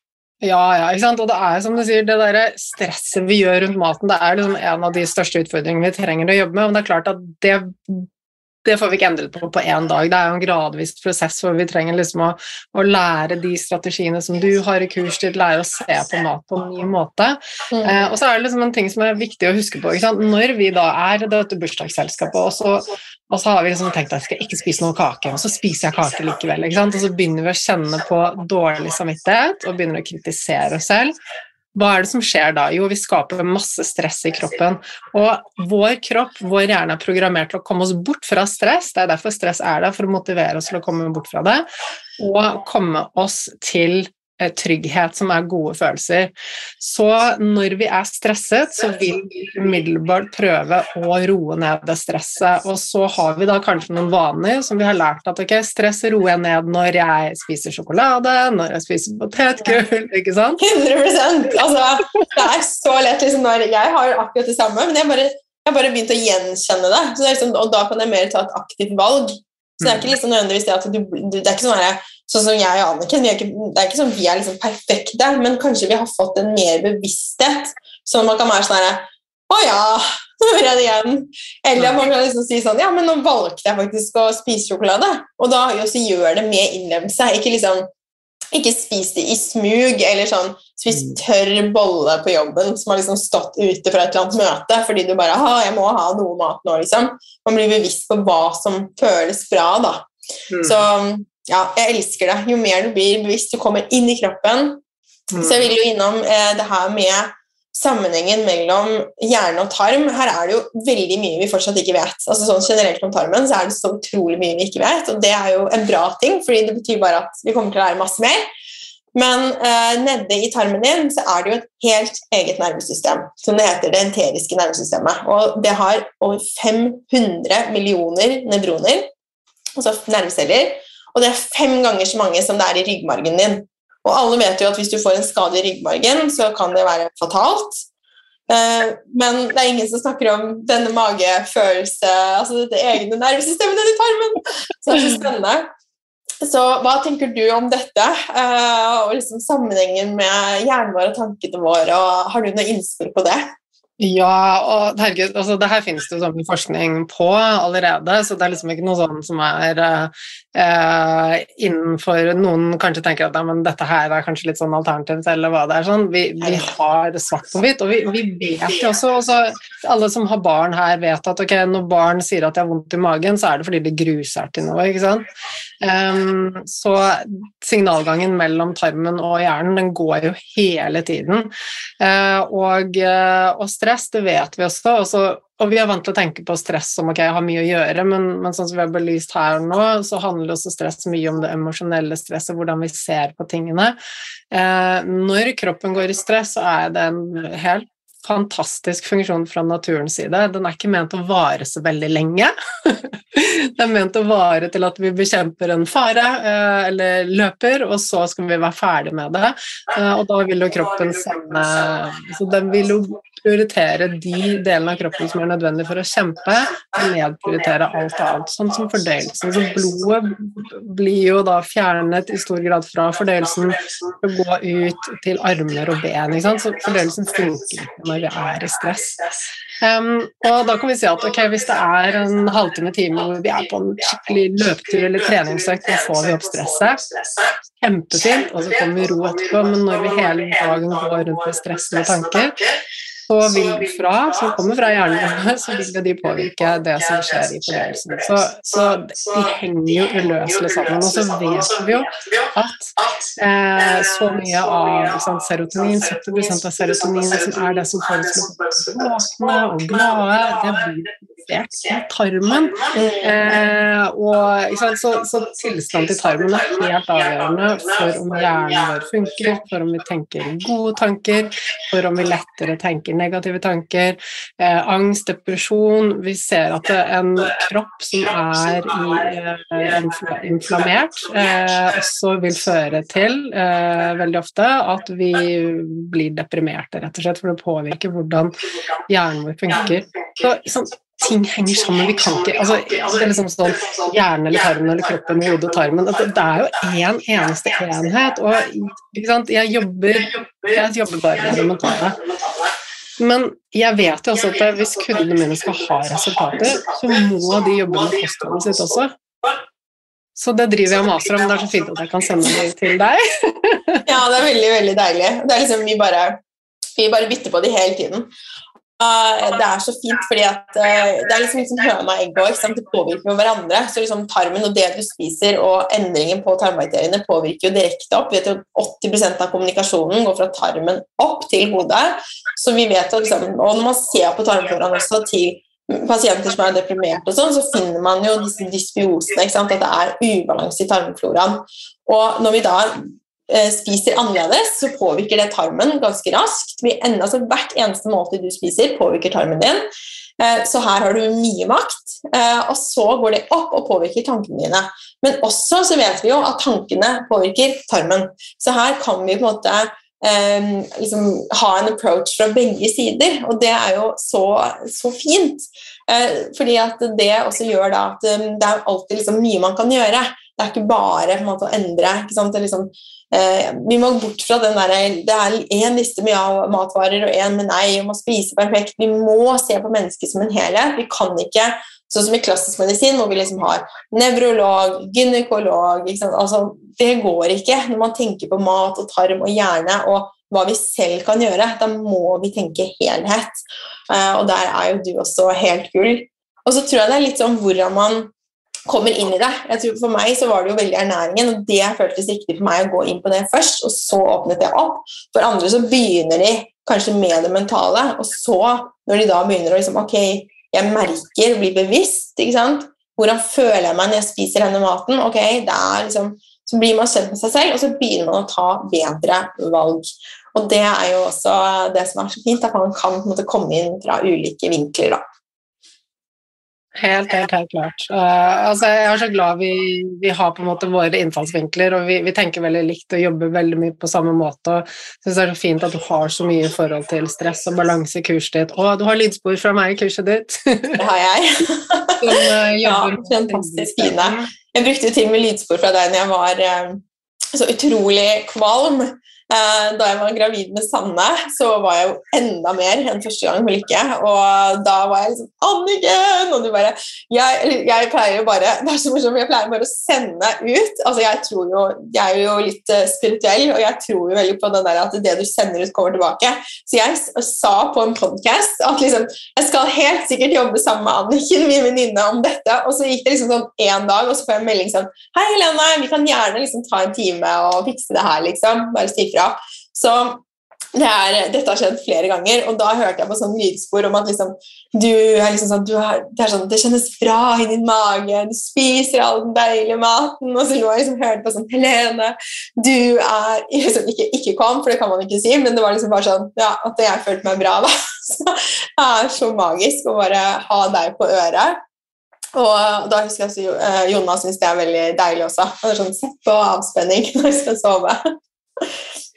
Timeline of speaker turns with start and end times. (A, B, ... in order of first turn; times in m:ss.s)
0:00.4-0:08.1 A
0:08.6-0:31.1 A
0:17.7-0:18.0 B
0:31.7-0:41.6 A
0:42.2-1:00.6 A
1:00.6-1:27.9 B
1:09.8-1:10.1 A
1:28.5-1:40.1 B
1:30.9-1:31.2 A
1:40.5-1:40.8 A
1:40.6-1:44.8 B
1:45.3-1:45.7 A
1:45.4-1:58.4 B
1:59.1-2:09.1 B
2:09.8-2:17.8 B
2:18.5-2:25.7 B
2:26.4-2:33.5 B
2:34.0-2:55.2 A
2:46.4-2:46.7 B
2:55.8-3:14.0 A
3:14.5-3:49.2 A
3:49.8-3:57.0 A
3:57.8-4:02.6 A
4:03.3-4:48.5 A
4:22.9-4:23.5 B
4:49.1-5:02.2 A
5:03.2-5:09.1 A
5:10.4-5:14.0 A
5:14.0-5:16.4 B
5:17.0-5:18.3 B
5:19.0-5:49.8 B
5:50.4-6:38.3 B
6:38.9-7:05.2 B
7:07.0-7:21.0 A
7:21.0-7:27.0 B
7:22.2-7:24.5 A
7:27.5-8:00.4 B
8:00.9-8:21.8 B
8:22.5-8:28.2 B